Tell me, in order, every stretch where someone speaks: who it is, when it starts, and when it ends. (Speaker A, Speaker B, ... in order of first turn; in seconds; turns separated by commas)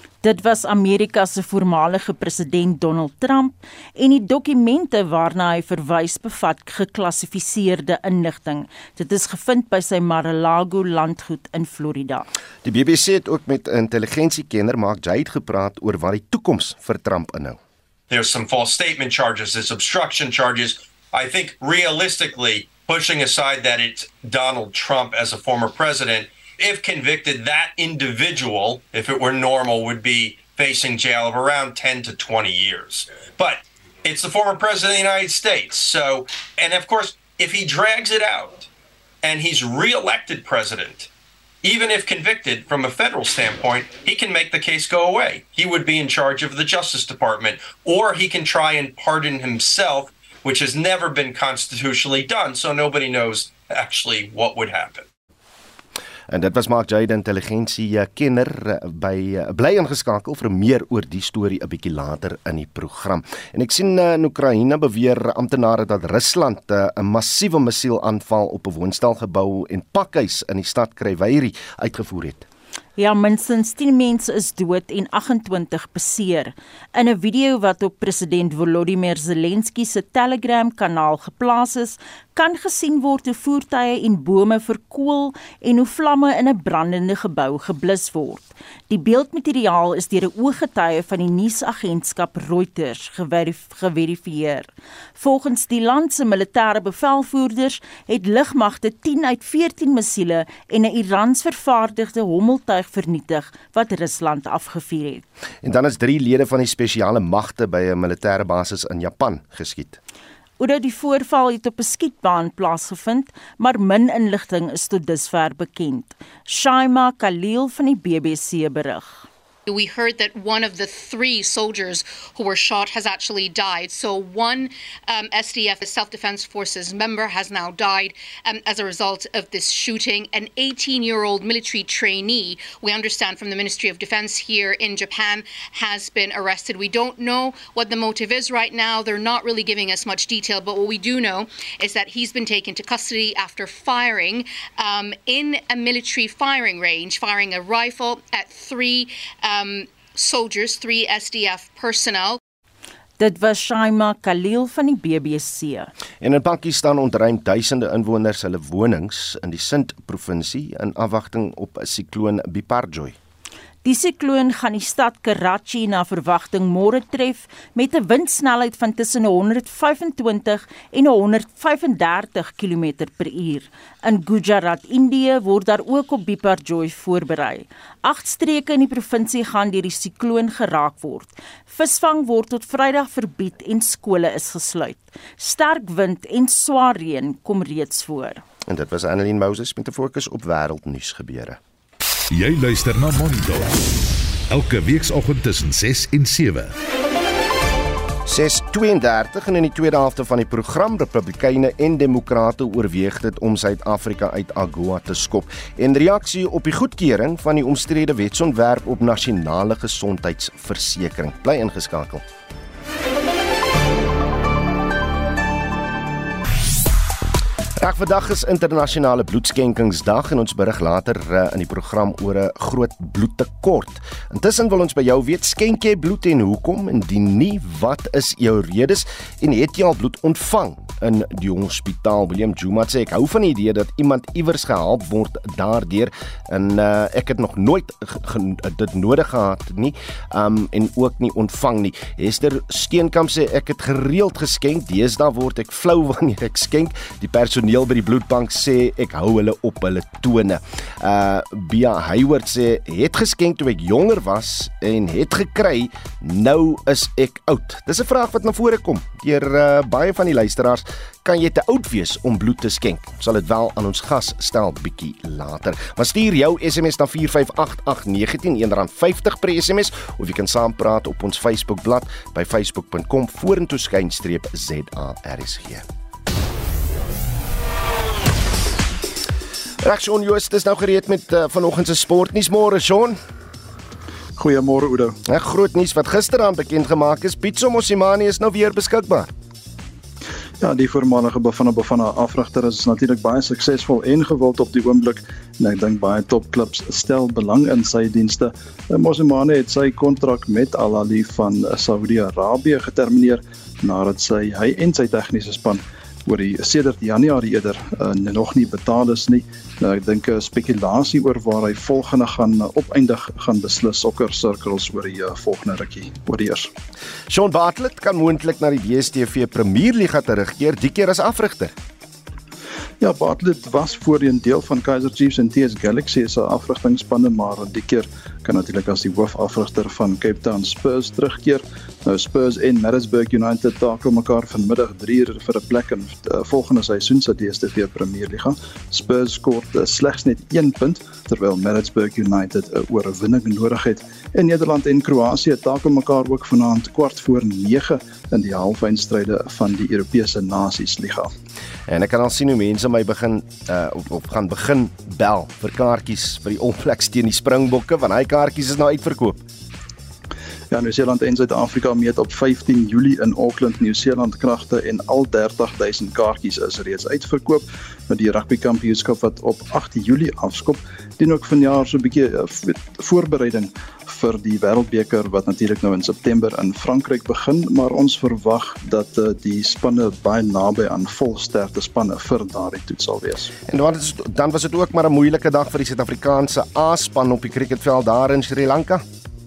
Speaker A: 0.2-12.3, Speaker B: 12.6-17.6, Speaker C: 18.1-38.7, Speaker C: 39.2-41.1, Speaker C: 41.6-55.1, Speaker B: 56.3-72.5, Speaker A: 73.0-105.2, Speaker B: 105.6-110.0, Speaker A: 110.6-119.2, Speaker D: 119.7-152.4, Speaker A: 153.2-155.9, Speaker B: 156.2-163.2, Speaker A: 163.8-188.4, Speaker B: 188.7-191.6, Speaker E: 192.3-193.8, Speaker E: 194.5-196.7, Speaker B: 198.2-212.2, Speaker B: 217.8-275.8, Speaker B: 279.8-283.2, Speaker F: 284.4-285.1, Speaker B: 285.2-289.3, Speaker F: 290.6-316.7, Speaker B: 317.3-321.7, Speaker F: 323.0-351.3, Speaker B: 351.9-359.4, Speaker F: 360.7-383.5, Speaker B: 383.7-389.0